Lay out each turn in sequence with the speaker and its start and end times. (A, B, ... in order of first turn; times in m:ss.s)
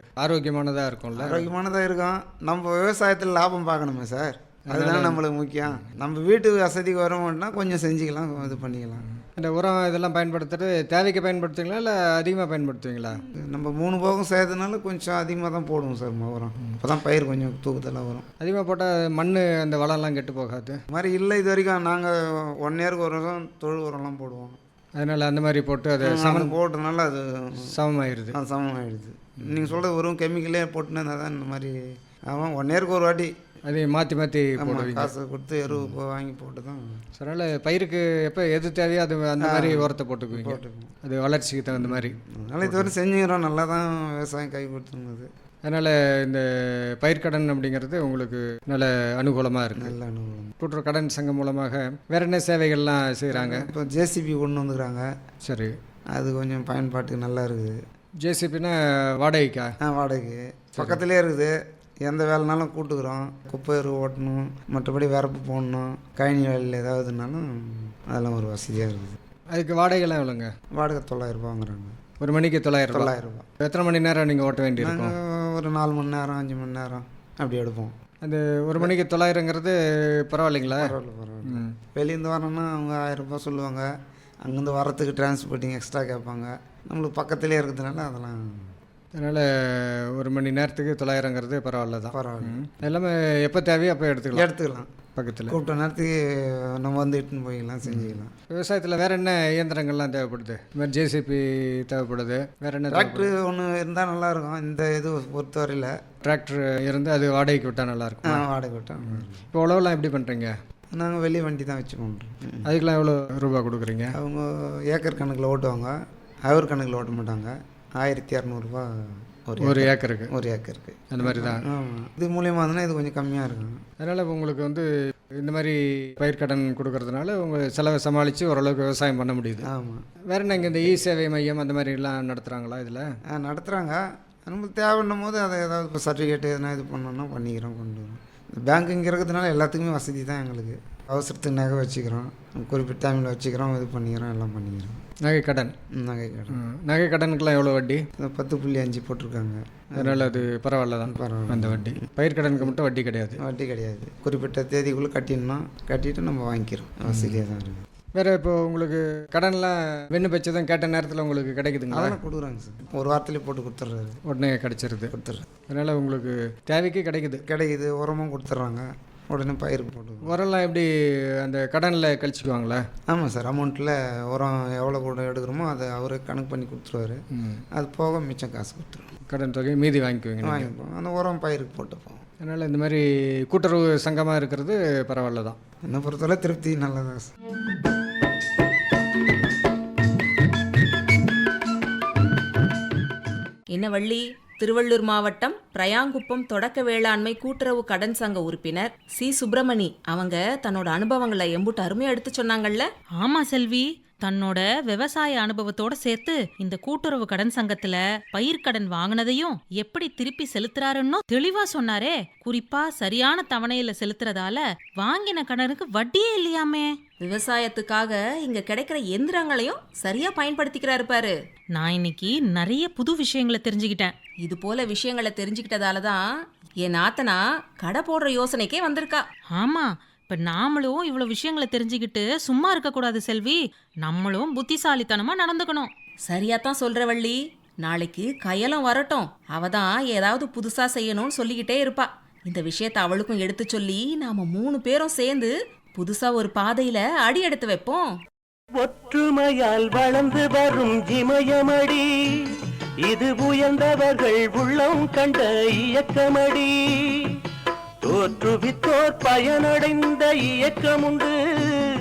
0:00.2-0:01.5 A
0:01.1-0:09.0 B
0:04.7-0:05.2 A
0:09.3-0:13.2 A
0:13.2-0:18.3 B
0:18.4-0:20.8 A
0:20.9-0:24.6 B
0:25.0-0:26.5 A
0:26.0-0:27.7 B
0:27.6-0:28.4 A
0:28.3-0:31.8 B
0:32.3-0:33.3 B
0:33.7-0:35.1 A
0:34.6-0:37.0 B
0:37.2-0:42.9 A
0:39.4-0:40.9 B
0:41.7-0:45.3 B
0:45.6-0:46.4 A
0:47.0-0:49.9 A
0:49.8-0:50.5 B
0:50.6-0:53.7 A
0:53.3-0:55.1 B
0:55.4-0:55.7 A
0:56.1-0:57.8 B
0:58.2-0:59.7 A
0:59.8-1:09.2 B
1:09.5-1:10.5 A
1:10.7-1:12.0 B
1:12.2-1:15.1 A
1:12.9-1:13.5 B
1:14.8-1:18.0 B
1:18.2-1:19.8 A
1:20.3-1:20.9 A
1:20.6-1:23.9 B
1:21.5-1:21.7 A
1:24.4-1:28.7 B
1:29.2-1:34.4 A
1:32.1-1:32.6 B
1:34.3-1:34.9 B
1:35.2-1:35.5 A
1:35.5-1:38.3 B
1:37.9-1:43.3 A
1:42.9-1:45.9 B
1:46.2-1:48.4 A
1:48.3-1:49.4 B
1:49.1-1:50.5 A
1:50.9-1:52.7 B
1:52.6-1:54.1 A
1:54.1-2:03.8 B
1:59.6-2:00.3 A
2:01.1-2:01.6 A
2:04.0-2:04.8 A
2:05.4-2:09.6 A
2:09.6-2:10.1 B
2:10.3-2:13.0 A
2:13.3-2:25.0 B
2:25.2-2:25.7 A
2:25.9-2:26.6 B
2:26.5-2:28.0 A
2:28.2-2:30.4 B
2:30.0-2:33.4 A
2:31.0-2:32.8 B
2:33.4-2:37.9 B
2:38.2-2:42.2 A
2:41.9-2:44.2 B
2:44.3-2:45.1 A
2:45.1-2:45.5 B
2:45.7-2:47.4 A
2:47.5-2:50.3 B
2:50.2-2:50.9 A
2:51.4-2:52.8 A
2:53.1-2:59.1 B
2:57.4-2:57.6 A
2:59.3-3:00.7 A
3:00.4-3:02.2 B
3:02.4-3:05.6 A
3:05.9-3:07.3 B
3:13.7-3:22.9 C
3:23.2-3:36.9 D
3:37.2-3:41.3 C
3:41.8-3:44.1 D
3:44.4-3:46.2 C
3:46.8-3:49.2 C
3:49.5-3:55.9 D
3:56.3-4:08.1 C
4:08.8-4:12.0 E
4:13.0-4:17.3 E
4:18.0-4:21.8 E